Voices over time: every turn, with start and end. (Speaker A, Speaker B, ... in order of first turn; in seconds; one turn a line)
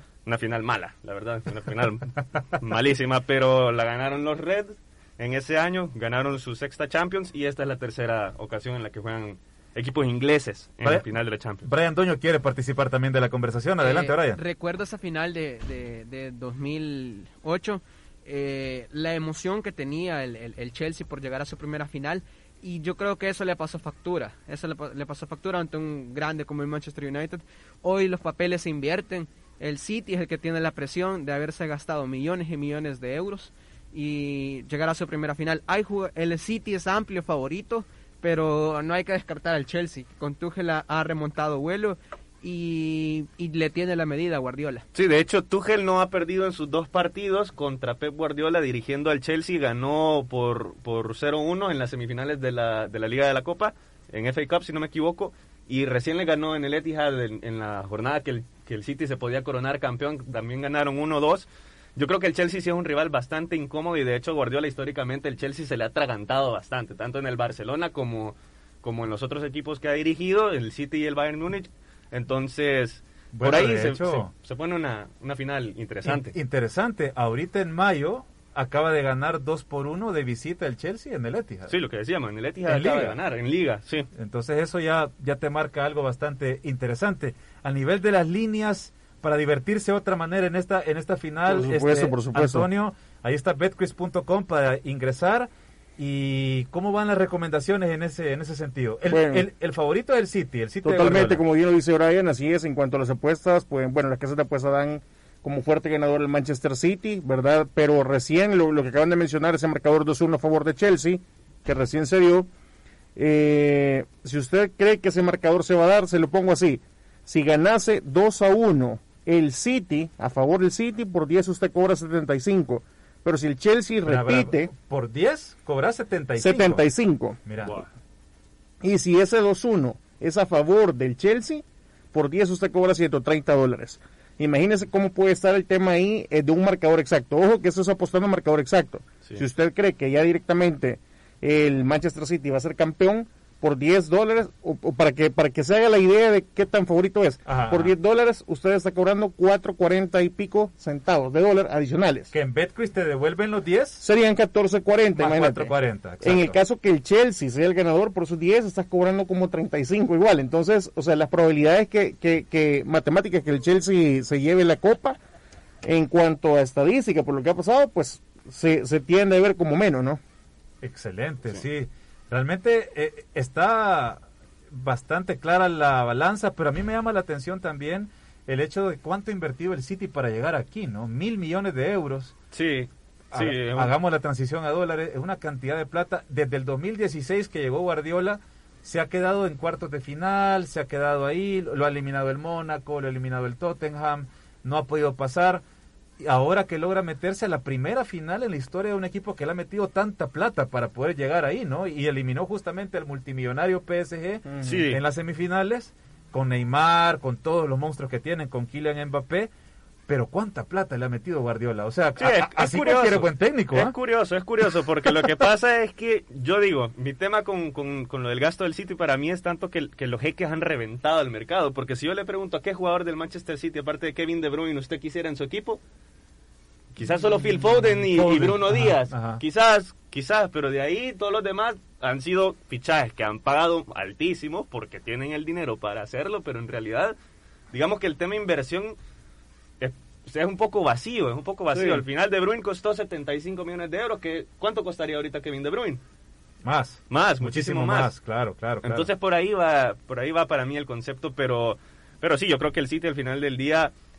Speaker A: 0.2-11.7
Speaker B: 11.6-14.4
Speaker C: 13.8-44.9
Speaker A: 44.9-76.3
Speaker B: 73.3-74.3
Speaker B: 76.0-81.8
Speaker A: 81.7-84.1
Speaker B: 82.7-83.2
Speaker B: 84.1-101.4
Speaker D: 91.5-92.7
Speaker D: 99.1-99.5
Speaker D: 100.8-112.5
Speaker D: 113.2-124.7
Speaker B: 124.0-126.9
Speaker D: 126.4-127.4
Speaker B: 127.4-127.8
Speaker D: 128.8-152.3
Speaker B: 147.4-147.9
Speaker B: 152.3-154.0
Speaker D: 154.0-165.2
Speaker B: 155.1-156.6
Speaker D: 165.8-170.2
Speaker B: 170.8-182.3
Speaker A: 182.5-183.9
Speaker B: 183.3-195.6
Speaker B: 196.2-209.5
Speaker D: 204.5-204.8
Speaker A: 204.6-205.0
Speaker B: 210.1-213.9
Speaker A: 212.2-225.8
Speaker A: 227.0-237.2
Speaker B: 227.6-229.4
Speaker A: 237.7-239.0
Speaker A: 239.8-246.0
Speaker B: 241.7-242.1
Speaker B: 246.6-249.1
Speaker A: 247.1-248.1
Speaker A: 248.8-253.9